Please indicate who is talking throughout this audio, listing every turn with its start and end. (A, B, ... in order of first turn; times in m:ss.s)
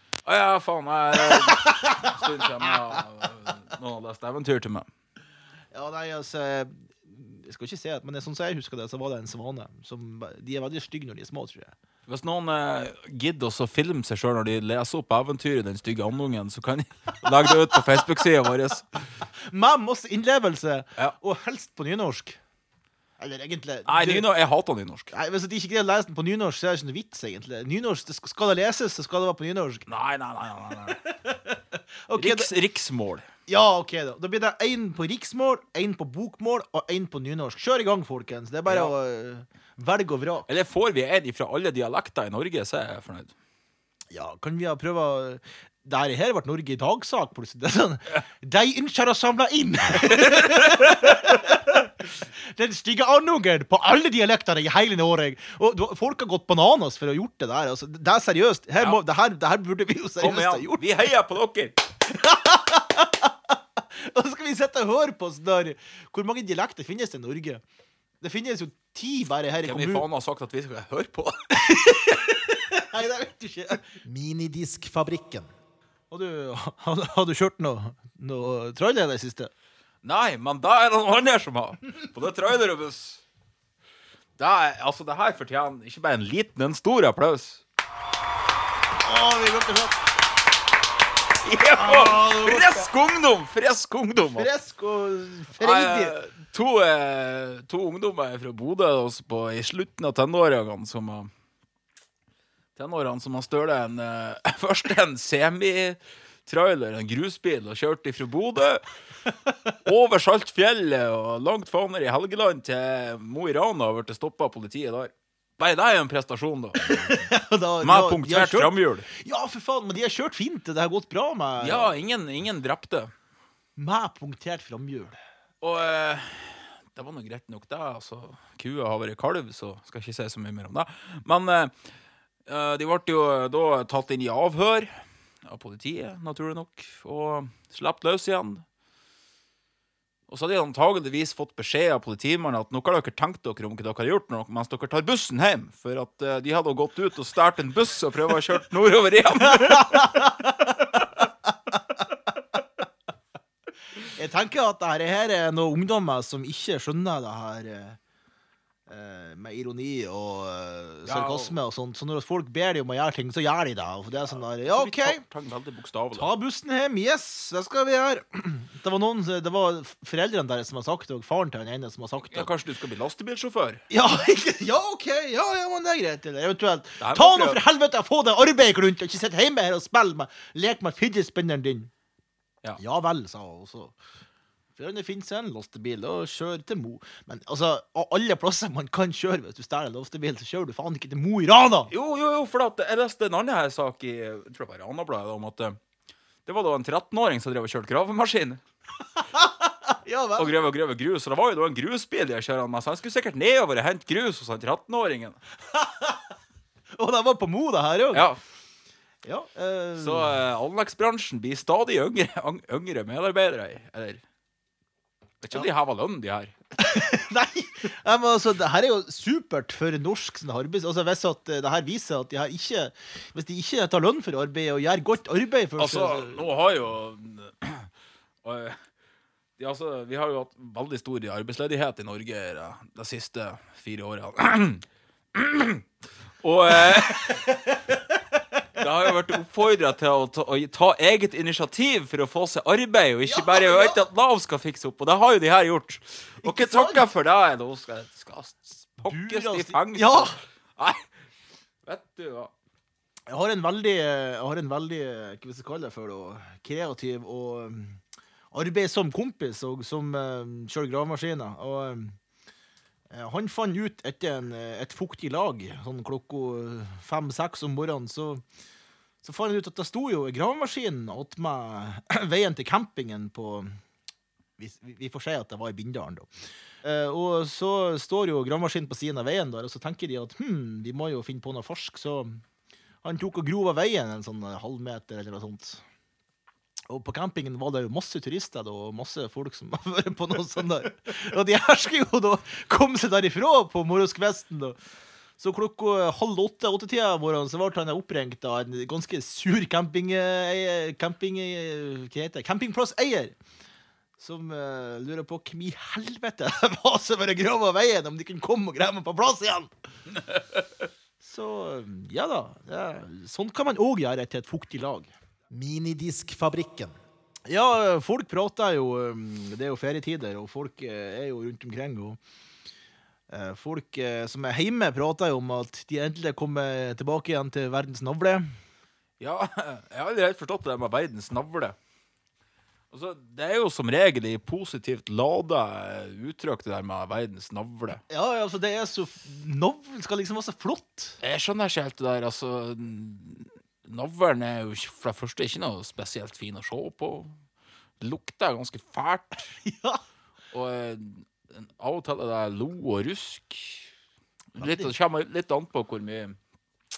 0:00.2-0:04.9 A
0:01.2-0:02.8 B
0:05.7-0:11.7 B
0:12.1-0:18.9 A
0:19.5-0:22.4 B
0:23.2-0:24.3 B
0:23.9-0:25.1 A
0:25.1-0:29.9 B
0:29.9-0:31.0 A
0:31.0-0:32.5 B
0:32.2-0:33.3 A
0:33.5-0:40.5 B
0:38.7-0:38.9 A
0:40.5-0:43.3 A
0:44.1-1:00.9 B
1:00.2-1:01.8 A
1:02.1-1:03.3 B
1:04.0-1:07.6 B
1:08.2-1:10.1 B
1:09.6-1:11.4 A
1:11.6-1:15.5 B
1:16.1-1:19.5 B
1:20.0-1:23.2 A
1:24.4-1:27.6 A
1:29.0-1:30.0 B
1:31.4-1:34.5 A
1:31.8-1:32.9 B
1:34.3-1:36.1 B
1:35.6-1:41.3 A
1:42.8-1:48.9 A
1:49.8-1:57.3 A
1:56.8-2:01.9 B
1:57.8-1:59.1 A
2:01.6-2:03.1 A
2:03.8-2:05.2 B
2:05.6-2:11.7 A
2:12.5-2:14.9 A
2:15.4-2:18.6 A
2:20.3-2:30.0 A
2:29.4-2:31.8 B
2:34.0-2:38.0 B
2:38.9-2:45.2 B
2:41.1-2:41.6 A
2:44.2-2:46.3 A
2:46.2-2:52.5 B
2:52.2-2:53.8 A
2:53.9-3:01.9 B
2:57.0-2:57.6 A
3:02.8-3:04.0 B
3:04.8-3:11.9 B
3:11.9-3:15.8 A
3:16.5-3:18.6 A
3:19.2-3:20.5 B
3:20.4-3:25.4 A
3:25.7-3:26.3 B
3:27.0-3:28.3 B
3:28.1-3:28.4 A
3:29.2-3:30.4 B
3:30.0-3:34.2 A
3:35.4-3:36.5 A
3:36.8-3:46.5 B
3:45.8-3:47.9 A
3:48.4-3:48.8 A
3:49.6-3:55.9 A
3:56.4-3:57.5 A
3:57.0-3:58.0 B
3:58.7-4:11.0 A
4:03.2-4:04.0 B
4:06.4-4:07.1 B
4:09.1-4:10.4 B
4:11.8-4:12.5 A
4:13.3-4:18.0 B
4:18.5-4:22.2 B
4:23.1-4:28.4 B
4:29.2-4:33.8 B
4:34.6-4:36.3 B
4:36.8-4:42.4 B
4:43.0-4:45.8 B
4:46.9-4:54.8 B
4:55.4-5:03.4 B
5:04.2-5:09.7 B
5:10.3-5:10.6 A
5:11.2-5:16.9 B
5:17.5-5:22.2 B
5:23.3-5:28.5 B
5:29.2-5:31.8 A
5:32.9-5:38.0 A
5:38.1-5:41.2 B
5:41.2-5:47.3 A
5:48.0-5:49.6 A
5:49.5-5:50.0 B
5:50.5-5:53.9 A
5:54.6-5:56.4 A
5:54.6-5:54.9 B